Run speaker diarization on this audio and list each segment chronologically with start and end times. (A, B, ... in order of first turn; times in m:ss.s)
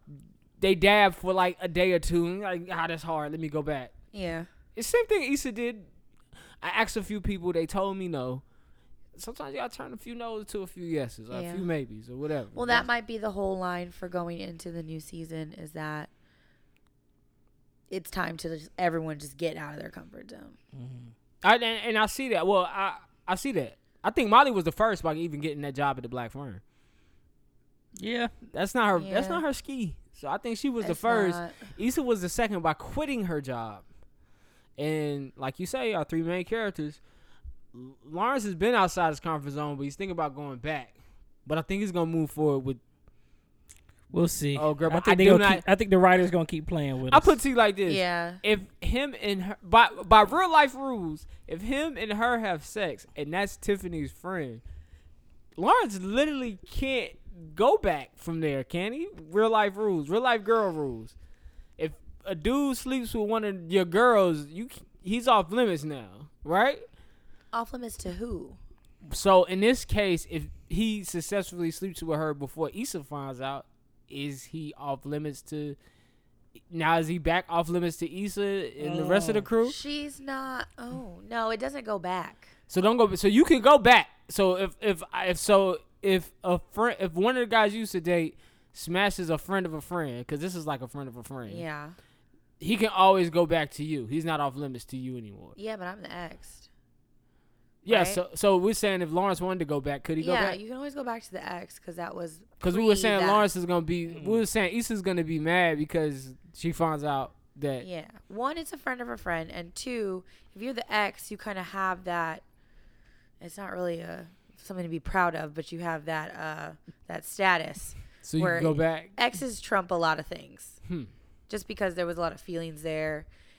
0:00.6-0:03.9 A
0:04.1-0:04.5 B
0:04.7-0:05.9 A
0:06.6-0:08.4 A
0:09.1-0:12.9 A
0:11.3-0:11.7 B
0:12.5-0:16.1 B
0:17.9-0:20.6 B
0:20.7-0:21.1 C
0:21.4-0:26.6 A
0:28.0-0:28.3 C
0:28.5-0:33.8 A
0:28.9-0:29.4 B
0:30.8-0:31.7 B
0:34.8-0:37.0 A
0:37.7-0:42.8 A
0:44.1-0:47.4 C
0:44.5-0:45.6 A
0:47.1-0:54.6 A
0:47.9-0:48.4 B
0:55.6-1:01.1 A
1:01.8-1:06.8 A
1:07.5-1:08.6 B
1:09.1-1:15.8 A
1:16.7-1:19.7 A
1:18.8-1:19.5 C
1:19.6-1:22.5 B
1:22.7-1:31.6 A
1:31.4-1:31.9 B
1:32.6-1:35.6 A
1:35.6-1:36.7 B
1:37.8-1:40.6 A
1:37.9-1:38.2 B
1:40.2-1:43.5 B
1:42.6-1:47.8 A
1:44.1-1:44.4 C
1:47.8-1:52.4 B
1:53.4-2:00.8 B
1:58.2-1:59.1 A
2:00.8-2:01.1 A
2:01.5-2:03.3 B